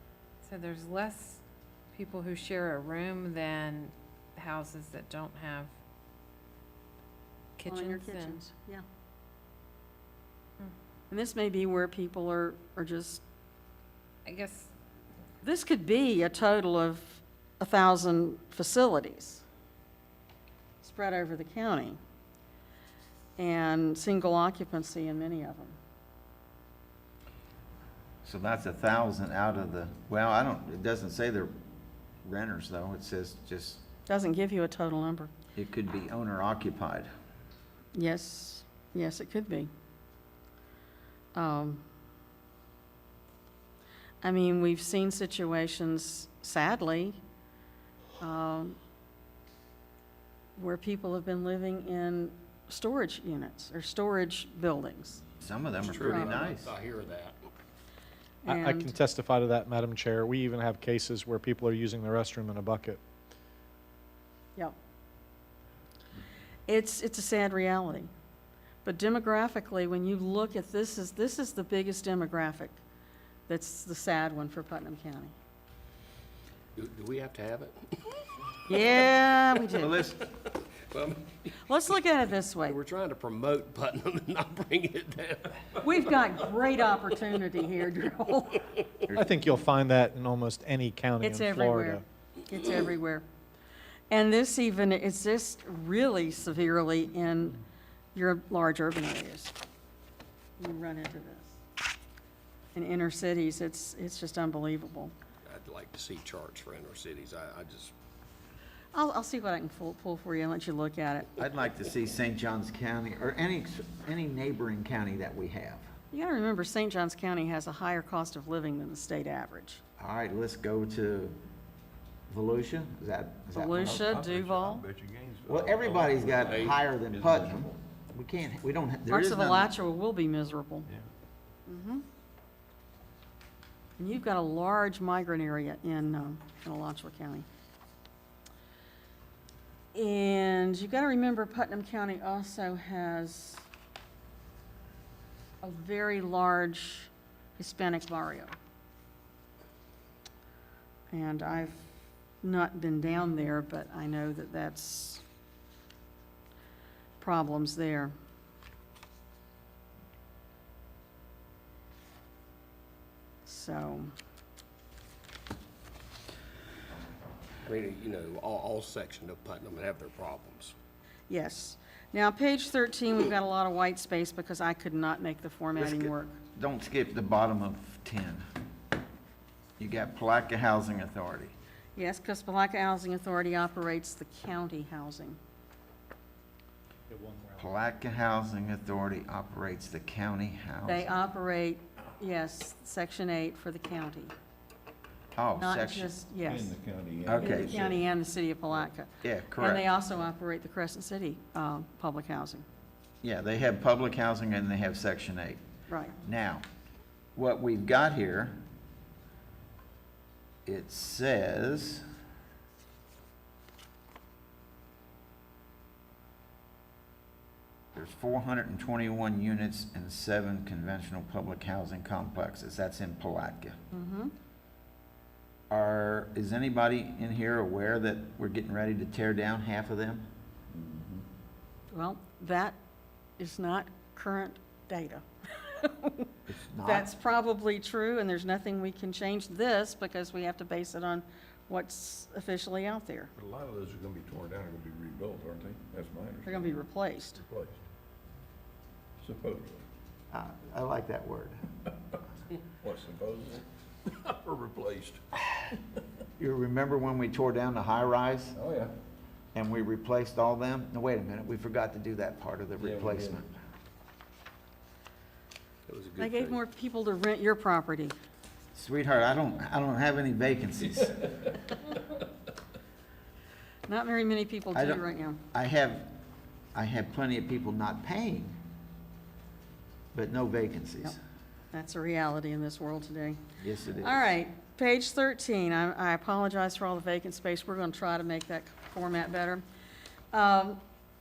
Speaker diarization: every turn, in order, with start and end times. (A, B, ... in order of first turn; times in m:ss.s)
0:00.4-0:01.4 A
0:01.9-0:05.7 A
0:07.6-0:08.4 A
0:07.6-0:08.8 B
0:11.1-0:13.2 B
0:14.2-0:14.7 A
0:15.4-0:19.4 B
0:20.8-0:22.0 B
0:23.4-0:25.8 B
0:28.2-0:31.5 C
0:32.2-0:33.8 C
0:34.1-0:35.3 B
0:35.6-0:37.1 C
0:37.9-0:39.7 B
0:41.3-0:41.8 B
0:44.2-0:47.2 B
0:48.2-0:48.8 B
0:50.6-0:55.2 B
0:55.4-0:56.7 C
0:55.8-0:57.4 D
0:55.9-0:56.5 B
0:58.4-0:59.0 B
0:58.4-1:03.0 E
1:06.7-1:08.1 B
1:08.8-1:12.8 B
1:13.5-1:15.3 B
1:16.8-1:17.8 D
1:18.7-1:20.1 B
1:19.7-1:20.2 C
1:20.9-1:21.5 D
1:21.7-1:22.8 B
1:22.7-1:25.7 D
1:25.8-1:28.7 B
1:29.1-1:29.4 C
1:29.1-1:32.0 E
1:31.2-1:33.2 B
1:34.1-1:37.6 B
1:38.1-1:39.5 B
1:40.6-1:41.6 B
1:42.7-1:45.1 B
1:45.4-1:47.9 D
1:48.9-1:51.3 B
1:51.4-1:55.9 C
1:56.1-1:59.8 B
2:00.0-2:01.4 C
2:02.3-2:04.1 C
2:03.5-2:04.8 B
2:03.8-2:07.8 F
2:05.5-2:09.7 C
2:06.4-2:06.8 D
2:09.1-2:10.9 B
2:11.7-2:12.0 B
2:14.0-2:17.5 B
2:19.9-2:23.6 B
2:25.6-2:28.5 B
2:31.1-2:31.9 B
2:32.4-2:35.2 B
2:37.2-2:38.1 B
2:43.4-2:44.1 B
2:47.6-2:50.7 D
2:51.3-2:56.3 B
2:55.8-2:58.4 C
2:59.8-3:01.5 C
3:02.0-3:05.4 B
3:07.1-3:07.6 E
3:07.6-3:11.1 C
3:10.8-3:14.3 B
3:15.3-3:16.1 C
3:15.6-3:16.7 B
3:16.4-3:18.0 F
3:17.2-3:17.8 C
3:17.4-3:22.6 B
3:19.2-3:19.8 C
3:23.2-3:25.6 C
3:25.9-3:26.2 B
3:26.2-3:26.6 C
3:27.3-3:28.6 C
3:30.6-3:32.0 C
3:37.9-3:43.8 C
3:43.9-3:44.3 B
3:45.7-3:50.2 C
3:50.7-3:51.2 F
3:51.9-3:52.8 B
3:53.4-3:56.3 B
3:56.5-3:57.1 C
3:56.8-4:03.3 B
4:03.4-4:06.8 F
4:06.4-4:07.4 B
4:07.4-4:07.8 F
4:09.2-4:09.8 F
4:10.3-4:11.6 C
4:12.8-4:15.2 F
4:16.4-4:18.6 C
4:18.6-4:18.9 F
4:19.5-4:23.5 C
4:22.8-4:23.4 F
4:25.9-4:26.6 D
4:26.2-4:28.1 B
4:28.7-4:31.3 C
4:33.9-4:35.4 B
4:34.7-4:36.2 C
4:36.7-4:38.6 C
4:40.1-4:41.2 C
4:41.7-4:43.4 B
4:43.6-4:44.3 C
4:44.0-4:49.6 B
4:50.3-4:50.8 B